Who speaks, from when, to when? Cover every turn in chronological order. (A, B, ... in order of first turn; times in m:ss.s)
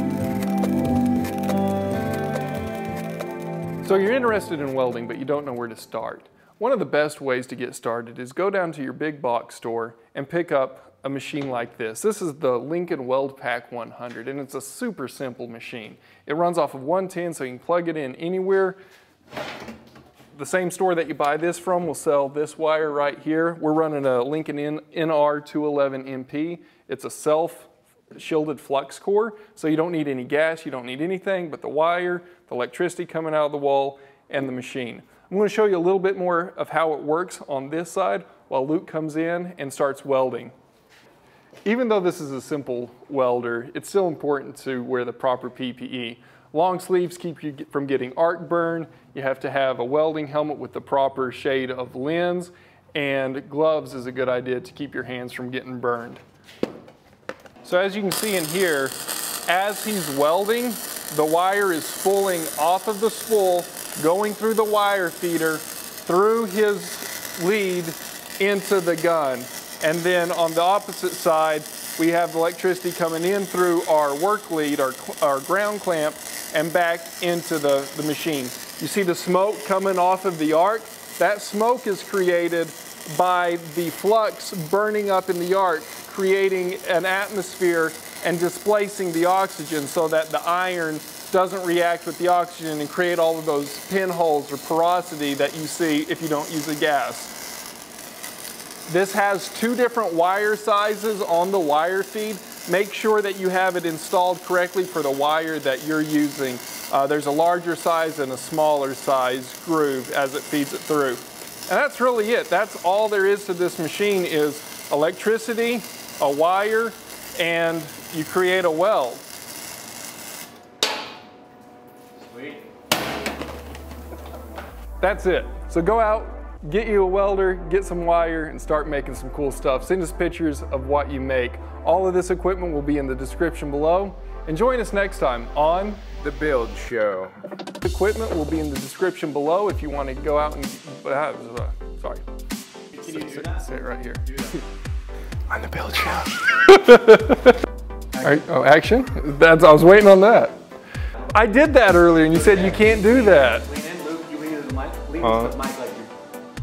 0:03.8-0:18.8 A
0:20.3-0:40.5 A
0:41.6-0:56.2 A
0:57.6-1:37.3 A
1:38.9-1:59.2 A
2:02.3-2:02.6 B
2:05.0-2:16.0 A
2:16.2-2:17.3 C
2:17.8-2:22.2 A
2:22.9-2:24.4 A
2:23.1-2:23.4 B
2:25.5-2:26.5 C
2:26.6-2:27.6 A
2:28.2-2:30.6 A
2:31.2-2:33.7 A
2:32.3-2:36.1 B
2:35.2-2:35.6 C